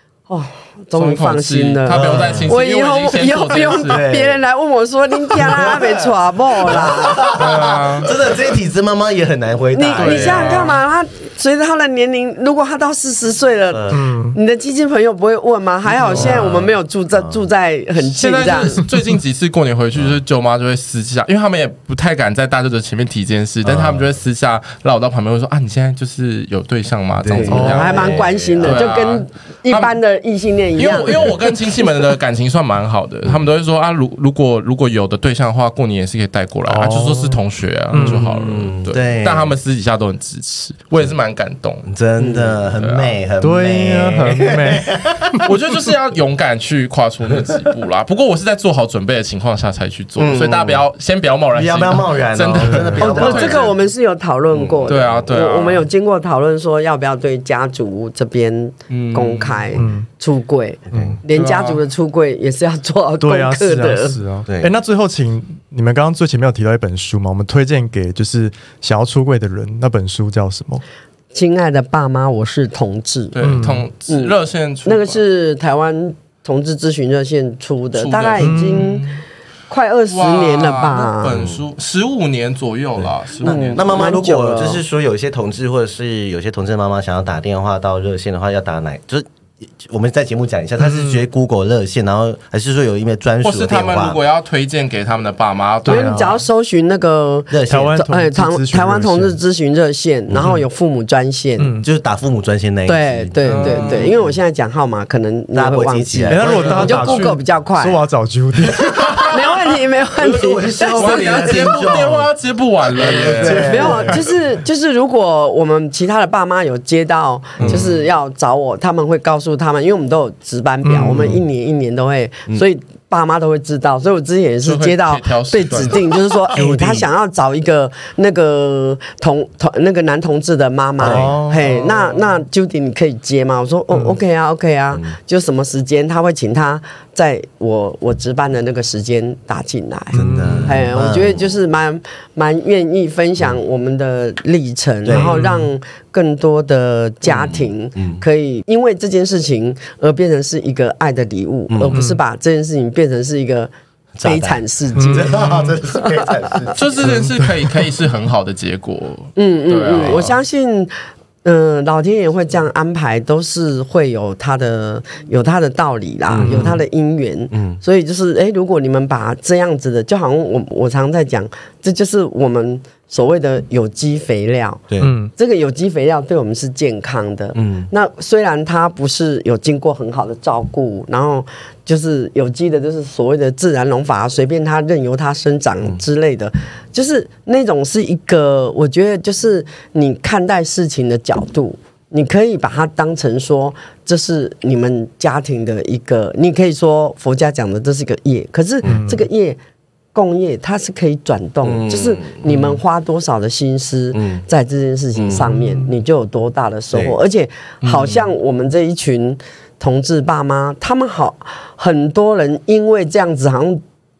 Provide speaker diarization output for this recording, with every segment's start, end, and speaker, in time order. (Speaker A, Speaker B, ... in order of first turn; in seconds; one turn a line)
Speaker A: 0.3-7.3
Speaker B: 0.9-4.0
Speaker C: 1.9-2.5
Speaker C: 3.8-4.4
Speaker C: 5.3-10.7
Speaker B: 7.1-8.1
Speaker A: 9.7-18.9
Speaker B: 9.9-10.8
Speaker C: 13.7-14.0
Speaker D: 13.9-14.4
Speaker B: 15.9-16.7
Speaker C: 16.1-17.4
Speaker B: 18.0-29.9
Speaker C: 23.6-24.1
Speaker C: 27.2-28.9
Speaker A: 27.3-32.0
Speaker D: 27.5-27.9
Speaker B: 30.7-41.9
Speaker D: 36.7-38.2
Speaker C: 38.0-39.5
Speaker C: 41.9-45.5
Speaker B: 42.7-43.1
Speaker D: 43.4-45.5
Speaker B: 45.4-53.7
Speaker C: 50.2-50.8
Speaker C: 51.5-53.7
Speaker D: 52.6-53.1
Speaker A: 53.0-64.2
Speaker C: 54.5-55.3
Speaker B: 54.9-55.9
Speaker B: 58.9-59.8
Speaker D: 59.7-60.1
Speaker C: 60.9-61.2
Speaker D: 60.9-61.2
Speaker B: 61.3-61.8
Speaker D: 63.2-70.8
Speaker C: 64.5-64.7
Speaker A: 71.3-73.6
Speaker B: 73.3-75.2
Speaker D: 73.4-73.9
Speaker A: 74.1-79.0
Speaker B: 77.9-79.2
Speaker D: 78.4-79.0
Speaker A: 79.7-81.4
Speaker B: 80.1-84.1
Speaker C: 81.3-81.6
Speaker C: 83.0-89.2
Speaker A: 83.4-84.8
Speaker C: 89.8-94.2
Speaker D: 90.8-91.2
Speaker B: 93.4-96.4
Speaker D: 95.8-96.4
Speaker A: 95.8-101.7
Speaker C: 97.5-97.9
Speaker D: 97.7-99.4
Speaker C: 100.3-100.6
Speaker D: 101.6-101.9
Speaker C: 101.8-104.3
Speaker A: 102.9-108.0
Speaker B: 103.4-104.2
Speaker C: 105.5-107.2
Speaker D: 106.3-109.5
Speaker A: 109.3-111.9
Speaker C: 110.2-112.3
Speaker B: 110.9-113.9
Speaker C: 112.9-114.2
Speaker A: 113.1-153.7
Speaker D: 113.5-114.0
Speaker B: 117.6-118.0
Speaker D: 120.8-121.4
Speaker B: 124.6-126.1
Speaker C: 126.5-127.1
Speaker C: 131.0-131.4
Speaker D: 131.0-131.7
Speaker B: 131.5-132.4
Speaker D: 140.1-140.8
Speaker C: 140.1-141.5
Speaker C: 145.0-145.4
Speaker D: 145.1-145.7
Speaker C: 147.2-148.2
Speaker C: 151.7-152.0
Speaker D: 151.9-152.2
Speaker C: 154.2-157.3
Speaker A: 154.2-156.7
Speaker D: 154.9-155.6
Speaker B: 155.5-155.8
Speaker B: 156.7-160.4
Speaker D: 157.0-157.7
Speaker A: 159.4-160.9
Speaker A: 161.4-199.6
Speaker C: 166.3-166.8
Speaker D: 166.4-166.8
Speaker C: 167.5-167.8
Speaker D: 175.0-175.3
Speaker C: 177.5-177.9
Speaker D: 198.8-199.2
Speaker A: 200.1-213.8
Speaker C: 201.6-202.8
Speaker C: 204.1-204.4
Speaker C: 205.2-205.6
Speaker C: 206.9-207.2